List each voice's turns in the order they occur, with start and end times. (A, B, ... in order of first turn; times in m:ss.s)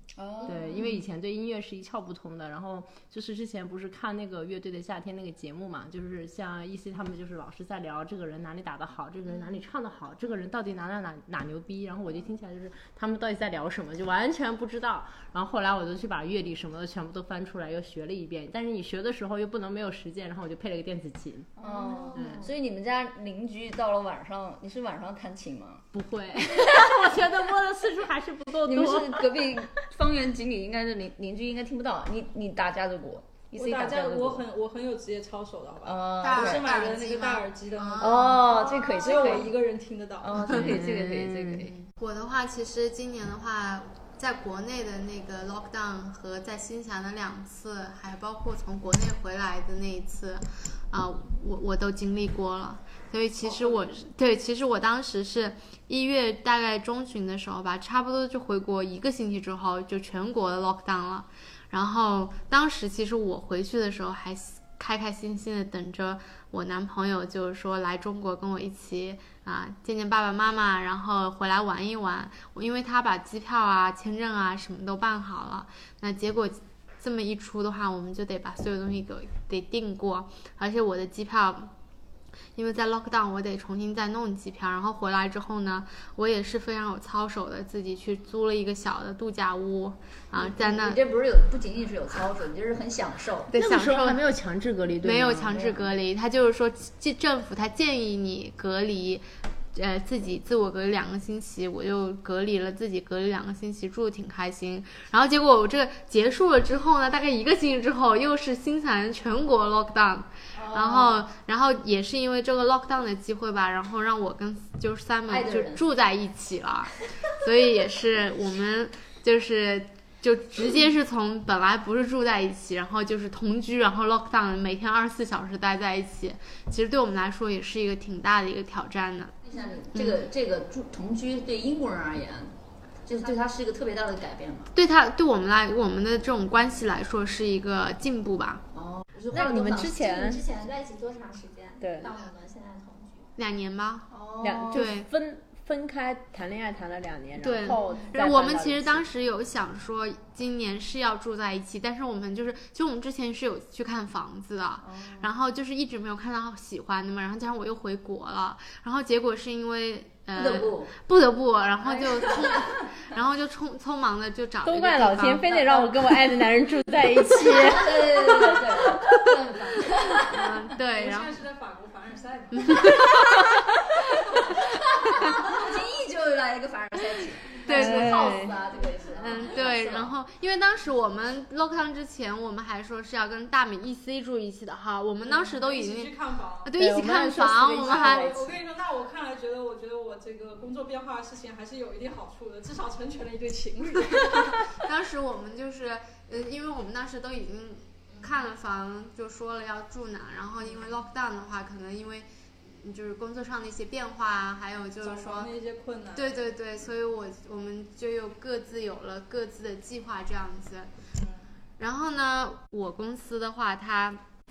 0:00.2-0:00.9 A
0:00.4-0:21.5 B
0:21.6-0:22.5 C
0:21.6-0:25.9 A
0:22.1-0:22.5 B
0:25.9-0:29.3 B
0:26.5-0:27.0 A
0:28.6-0:34.4 A
0:33.5-0:40.6 D
0:35.8-0:36.7 A
0:36.2-0:39.4 E
0:38.0-0:39.5 A
0:40.2-0:41.9 A
0:40.6-0:41.7 B
0:41.9-1:21.7 E
0:53.4-0:53.9 D
1:22.6-1:31.0 E
1:30.4-1:33.5 A
1:33.5-1:34.2 E
1:33.6-1:35.9 B
1:35.0-2:09.4 E
1:50.6-1:51.2 A
1:55.3-1:55.8 A
2:09.5-2:12.5 A
2:09.9-2:10.2 E
2:13.0-2:14.7 A
2:14.8-2:18.6 E
2:18.7-2:19.9 A
2:19.3-2:20.4 B
2:19.3-2:23.3 C
2:21.8-2:22.1 B
2:23.4-2:24.1 E
2:24.1-2:24.9 A
2:24.4-2:29.1 B
2:24.7-2:25.1 E
2:27.4-2:45.9 E
2:27.7-2:28.0 C
2:40.4-2:40.9 A
2:41.9-2:42.8 A
2:44.6-2:48.6 B
2:47.4-2:50.4 A
2:50.2-2:51.3 E
2:50.8-2:53.1 D
2:54.3-3:00.1 A
2:57.6-2:58.5 E
2:59.2-3:08.4 E
3:05.2-3:06.7 D
3:06.8-3:08.6 B
3:07.8-3:14.7 D
3:14.7-3:25.5 E
3:25.0-3:26.5 D
3:26.2-3:30.9 E
3:31.2-3:31.5 D
3:31.8-3:34.2 E